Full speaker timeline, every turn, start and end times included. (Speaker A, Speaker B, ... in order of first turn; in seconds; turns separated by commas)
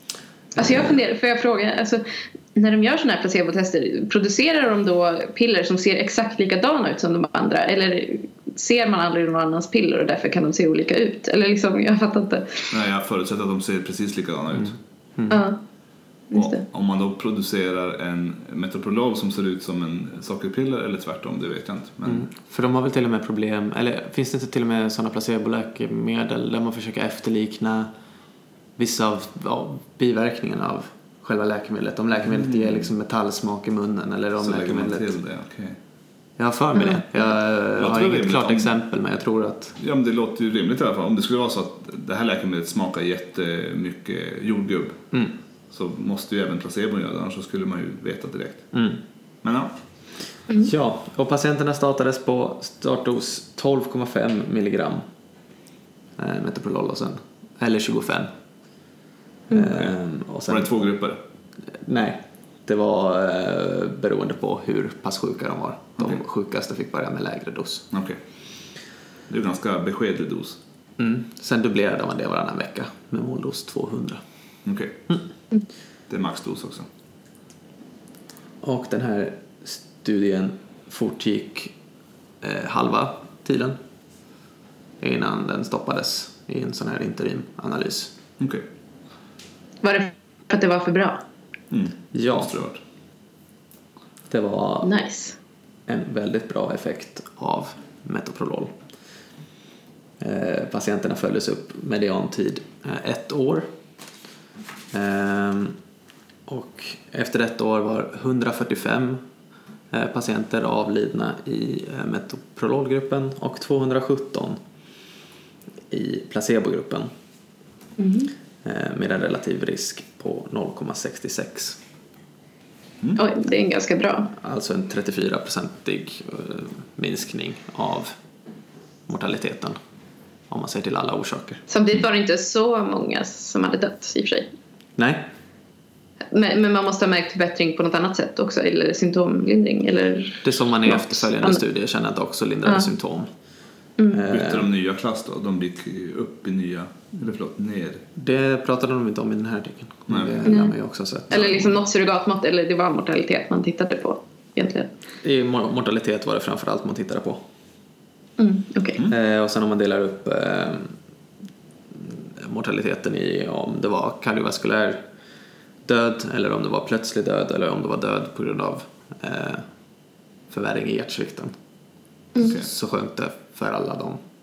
Speaker A: 0.6-12.7, Speaker B: 0.6-0.9, Speaker C: 12.7-14.8, Speaker B: 14.6-15.4, Speaker A: 15.3-15.6, Speaker A: 16.3-16.6, Speaker C: 16.3-22.3, Speaker B: 22.1-27.9, Speaker B: 28.8-35.1, Speaker C: 32.3-32.9, Speaker C: 34.4-35.8, Speaker B: 36.4-39.8, Speaker C: 37.8-38.7, Speaker C: 39.8-45.0, Speaker C: 45.7-48.7, Speaker B: 48.7-49.0, Speaker C: 49.4-49.7, Speaker B: 50.6-55.0, Speaker B: 56.2-58.3, Speaker B: 59.5-60.7, Speaker C: 59.6-59.9, Speaker C: 60.5-61.2, Speaker B: 61.7-67.9, Speaker C: 67.9-68.2, Speaker C: 69.3-70.6, Speaker B: 71.0-74.2, Speaker C: 74.7-75.0, Speaker C: 76.1-76.9, Speaker B: 78.6-81.7, Speaker B: 82.4-83.8, Speaker B: 85.0-88.1, Speaker C: 88.4-88.7, Speaker A: 89.8-91.2, Speaker C: 91.7-92.8, Speaker B: 92.1-92.5, Speaker B: 94.3-94.9, Speaker A: 94.8-95.4, Speaker B: 95.9-98.7, Speaker B: 100.2-103.7, Speaker B: 104.9-105.8, Speaker B: 106.5-109.2, Speaker B: 109.9-114.6, Speaker B: 115.9-117.1, Speaker A: 118.0-118.3, Speaker B: 118.6-121.8, Speaker A: 123.2-124.3, Speaker B: 124.3-128.2, Speaker B: 129.1-129.8, Speaker B: 130.5-131.6, Speaker A: 131.7-134.5, Speaker B: 135.0-135.3, Speaker A: 136.3-141.6, Speaker B: 140.4-143.3, Speaker B: 144.1-144.7, Speaker C: 144.3-148.1, Speaker B: 148.2-151.7, Speaker C: 150.1-150.4, Speaker A: 150.4-150.7, Speaker A: 151.3-154.9, Speaker B: 155.2-157.4, Speaker A: 158.4-159.1, Speaker B: 159.1-160.9, Speaker B: 161.9-165.0, Speaker B: 165.8-169.7, Speaker B: 170.5-171.5, Speaker B: 172.4-174.2